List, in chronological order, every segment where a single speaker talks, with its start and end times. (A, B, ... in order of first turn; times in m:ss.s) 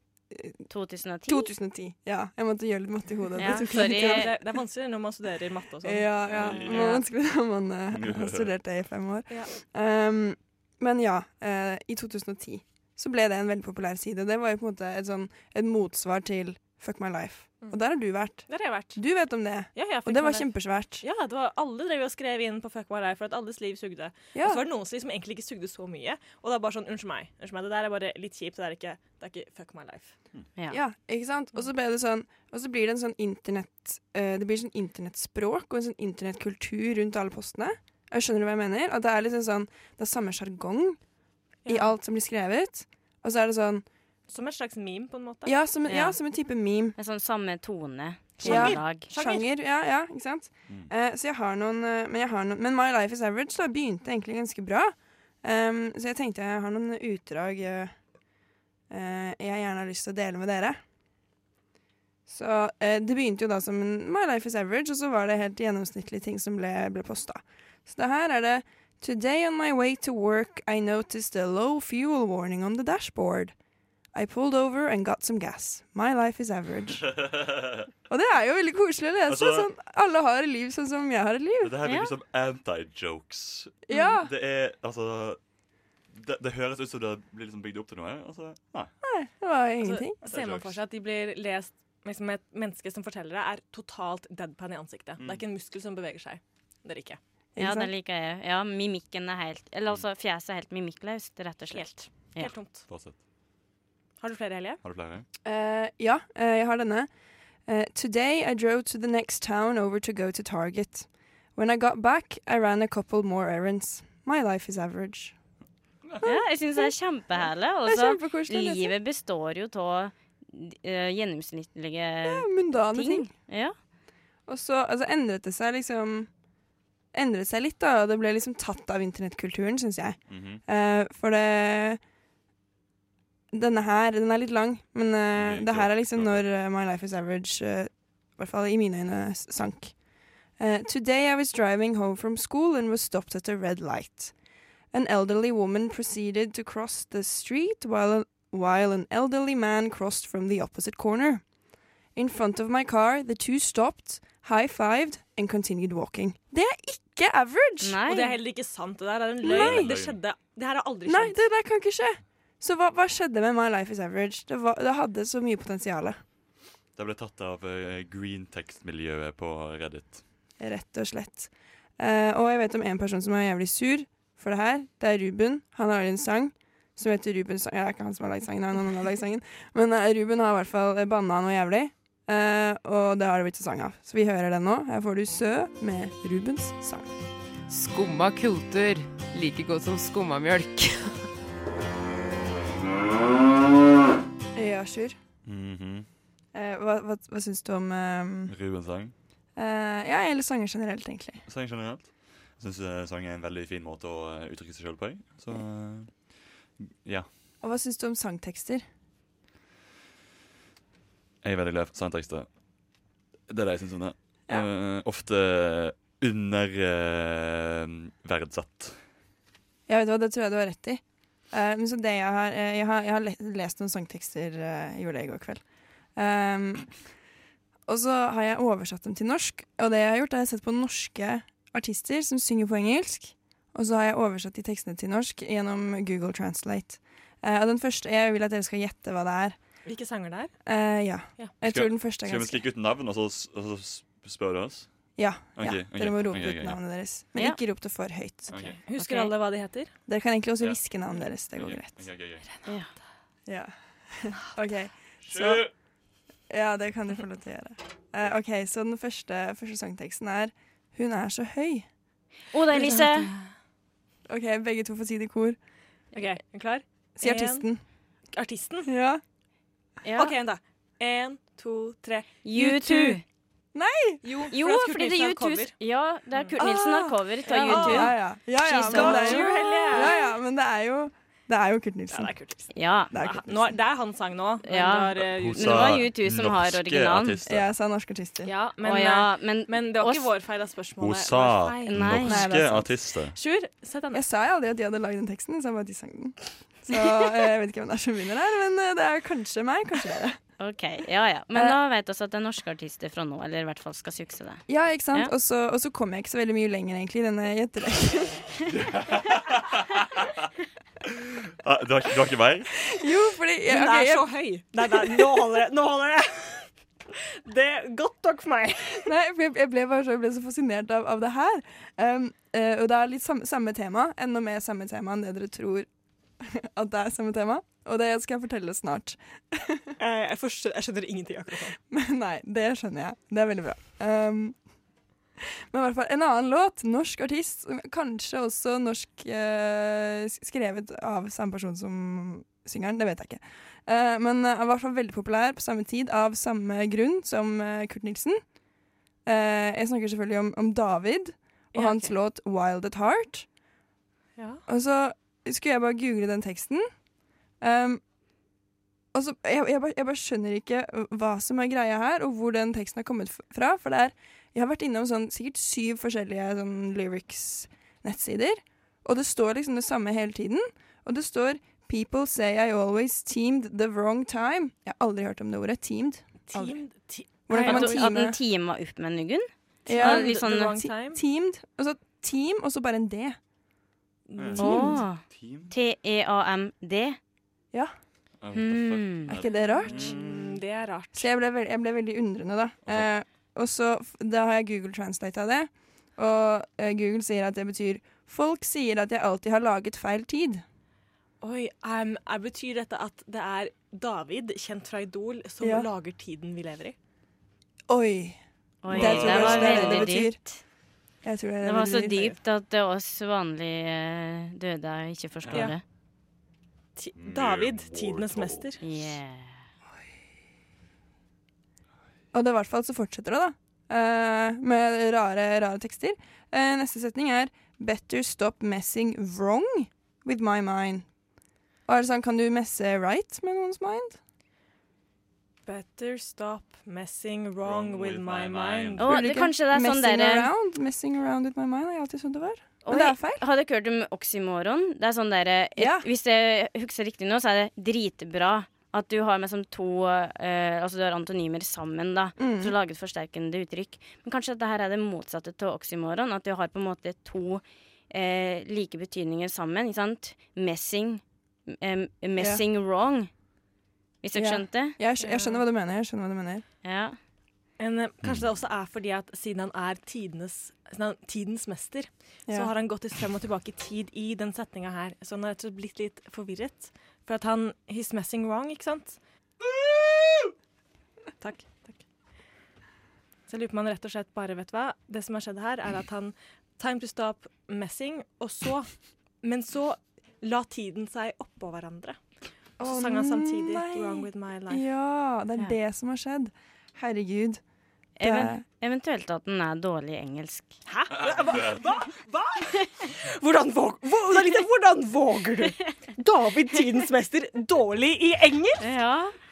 0:00.3-0:00.6 A
0:00.7-0:01.5 B
0:01.3-0:04.3 A
0:03.4-0:04.3 B
0:03.5-0:07.0 C
0:05.8-0:21.0 A
0:06.3-0:07.0 D
0:07.9-0:08.5 D
0:18.5-0:19.0 C
0:19.8-0:30.1 C
0:24.4-0:24.6 A
0:30.7-0:41.0 A
0:41.6-0:41.9 C
0:41.7-0:43.8 A
0:44.3-0:45.6 C
0:45.4-0:47.0 A
0:45.9-0:46.2 B
0:47.0-0:49.1 B
0:48.4-0:49.5 C
0:48.4-0:58.0 A
0:58.9-1:00.8 A
1:02.3-1:13.6 A
1:14.1-1:17.0 A
1:17.0-1:17.9 D
1:18.1-1:21.8 A
1:19.3-1:19.7 D
1:21.6-1:25.4 D
1:21.8-1:22.1 B
1:23.9-1:24.3 A
1:26.1-1:28.9 D
1:29.0-1:30.2 A
1:29.8-1:37.2 C
1:30.2-1:30.8 D
1:37.6-1:37.9 A
1:37.6-1:42.5 B
1:41.7-1:42.9 C
1:42.9-1:43.2 D
1:44.2-1:44.8 C
1:44.8-1:45.3 D
1:45.4-1:47.1 A
1:47.7-1:55.4 A
1:56.2-1:56.9 A
1:56.2-2:03.8 B
1:57.8-1:58.9 A
2:02.2-2:03.3 A
2:04.5-2:06.3 A
2:07.1-2:12.0 A
2:10.3-2:10.6 D
2:13.5-2:20.0 A
2:15.4-2:16.4 D
2:20.6-2:24.3 A
2:24.9-2:31.4 A
2:32.2-2:38.0 A
2:37.8-2:38.4 B
2:38.1-2:41.4 C
2:39.4-2:39.9 A
2:39.5-2:40.2 D
2:41.1-2:46.2 A
2:47.0-2:50.2 D
2:50.6-3:07.1 A
3:07.7-3:11.2 E
3:14.6-3:15.2 A
3:15.4-3:16.1 D
3:16.5-3:18.6 A
3:18.5-3:19.1 D
3:19.6-3:21.4 A
3:21.5-3:26.2 D
3:27.6-3:28.8 A
3:31.4-3:32.5 D
3:33.5-3:39.0 D
3:39.9-3:45.6 A
3:46.2-3:46.9 A
3:47.9-3:59.6 A
3:59.8-4:00.5 C
4:00.7-4:02.6 A
4:01.6-4:04.9 D
4:05.2-4:08.6 A
4:05.6-4:06.8 D
4:08.5-4:08.8 D
4:08.6-4:09.9 C
4:09.0-4:09.3 B
4:10.1-4:12.1 A
4:11.6-4:12.5 D
4:13.5-4:15.6 A
4:15.2-4:15.7 D
4:16.5-4:21.9 A
4:22.5-4:23.3 B
4:22.7-4:23.4 C
4:24.3-4:25.6 A
4:26.1-4:27.7 C
4:27.2-4:27.8 A
4:28.3-4:28.9 C
4:28.8-4:29.2 A
4:30.0-4:30.3 B
4:30.2-4:33.1 C
4:32.4-4:33.2 B
4:32.6-4:32.8 A
4:33.7-4:34.2 A
4:34.2-4:35.7 C
4:34.5-4:40.1 B
4:36.6-4:42.3 A
4:37.5-4:38.2 C
4:38.9-4:40.2 C
4:42.1-4:46.0 C
4:42.7-4:43.1 B
4:43.1-4:43.8 A
4:44.7-4:47.4 B
4:45.2-4:47.7 D
4:47.5-4:48.5 A
4:48.4-4:52.0 C
4:48.8-4:50.3 B
4:51.0-4:53.4 D
4:51.9-4:52.4 B
4:52.2-4:52.9 A
4:53.3-4:54.2 C
4:54.1-5:00.4 A
5:00.6-5:05.3 B
5:04.7-5:08.4 A
5:08.7-5:10.3 D
5:11.0-5:12.8 D
5:12.9-5:14.3 A
5:13.7-5:19.1 C
5:14.8-5:15.5 A
5:19.0-5:25.9 A
5:26.4-5:29.9 A
5:30.0-5:31.8 C
5:31.9-5:34.6 A
5:35.7-5:48.4 A
5:49.2-5:53.5 A
5:51.7-5:52.1 C
5:54.4-5:54.6 C
5:54.7-5:56.9 A
5:57.6-5:58.0 A
5:59.1-6:16.8 A
6:16.5-6:18.1 C
6:17.5-6:18.4 A
6:17.6-6:20.7 B
6:19.9-6:21.2 C
6:19.9-6:23.4 A
6:24.3-6:25.0 C
6:24.4-6:25.7 D
6:24.6-6:27.2 B
6:24.6-6:25.0 A
6:28.4-6:30.5 D
6:28.5-6:29.3 B
6:29.3-6:30.2 A
6:29.7-6:31.3 C
6:31.2-6:40.6 A
6:41.4-6:47.0 C
6:45.6-6:45.9 A
6:47.9-6:50.4 A
6:48.8-6:50.6 B
6:48.9-6:50.1 C
6:49.0-6:49.7 D
6:51.2-6:52.2 A
6:51.6-6:55.8 B
6:52.1-6:52.4 C
6:55.4-6:55.7 D
6:57.0-6:58.8 C
6:57.2-6:58.7 D
6:58.8-6:59.6 B
7:02.3-7:11.1 A
7:11.9-7:14.2 A
7:15.7-7:19.3 C
7:17.6-7:19.1 D
7:19.0-7:20.5 B
7:19.0-7:23.4 A
7:22.8-7:43.3 B
7:25.8-7:26.1 A
7:32.4-7:32.8 A
7:42.4-7:42.6 A
7:44.2-7:45.0 B
7:44.3-7:46.6 A
7:45.2-7:45.6 C
7:46.8-7:47.2 B
7:47.8-7:59.2 C
8:01.4-8:02.0 C
8:03.5-8:08.9 C
8:09.4-8:12.2 C
8:12.8-8:17.6 A
8:12.8-8:14.9 C
8:18.2-8:20.8 B
8:18.2-8:18.6 A
8:20.9-8:28.9 C
8:21.1-8:21.9 D
8:28.8-8:29.3 B